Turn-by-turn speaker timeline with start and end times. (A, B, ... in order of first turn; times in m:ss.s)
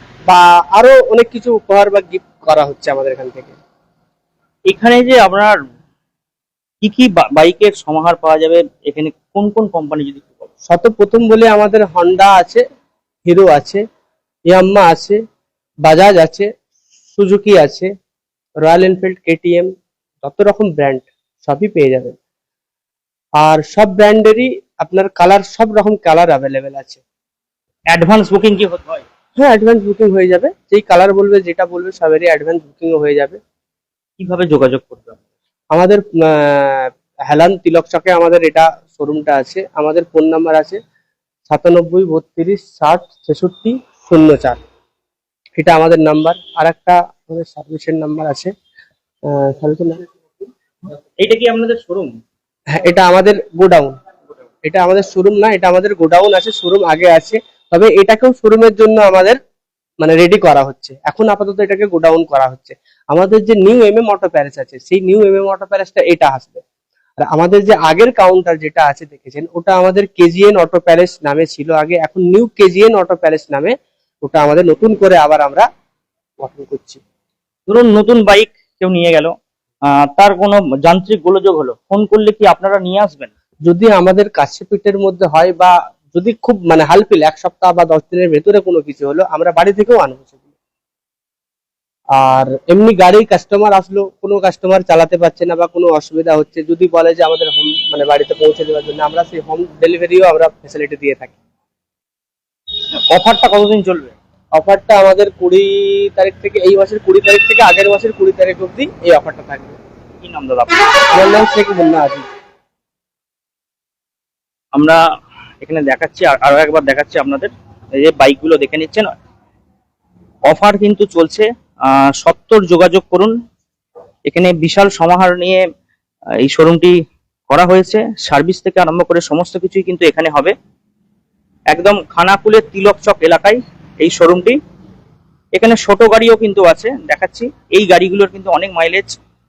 0:00.3-0:03.5 A
0:04.7-0:05.5 B
0:06.8-0:10.5 B
0:10.7-0:12.6 A
0:13.3-0:13.8 A
0:14.5-0:15.2 A
0:15.9-0:16.5 A
0:17.2-0:17.9 A
0:18.6-0:19.7 A
0:20.2-0:22.2 A
0:23.4-0:27.0 A
0:27.9-0:29.0 B
0:29.4-0:33.4 A
0:34.2-0:35.2 B
0:35.8-0:40.8 A
0:41.5-0:44.6 A
0:45.6-0:48.5 A
0:49.4-0:50.0 A
0:51.2-0:52.2 B
0:52.9-0:54.0 A
0:54.6-0:59.4 A
1:00.0-1:06.6 A
1:07.2-1:13.7 A
1:14.3-1:15.7 A
1:16.4-1:17.0 A
1:17.7-1:19.3 B
1:19.9-1:23.3 B
1:23.7-1:30.4 A
1:32.2-1:41.4 A
1:43.1-1:44.2 B
1:44.6-1:49.8 A
1:50.2-1:50.8 B
1:51.1-1:52.3 A
1:54.8-1:55.0 B
1:55.6-1:59.1 B
2:00.5-2:01.5 B
2:02.2-2:03.3 B
2:04.3-2:05.6 B
2:06.4-2:06.9 B
2:07.5-2:10.5 B
2:11.7-2:14.6 B
2:15.5-2:19.2 B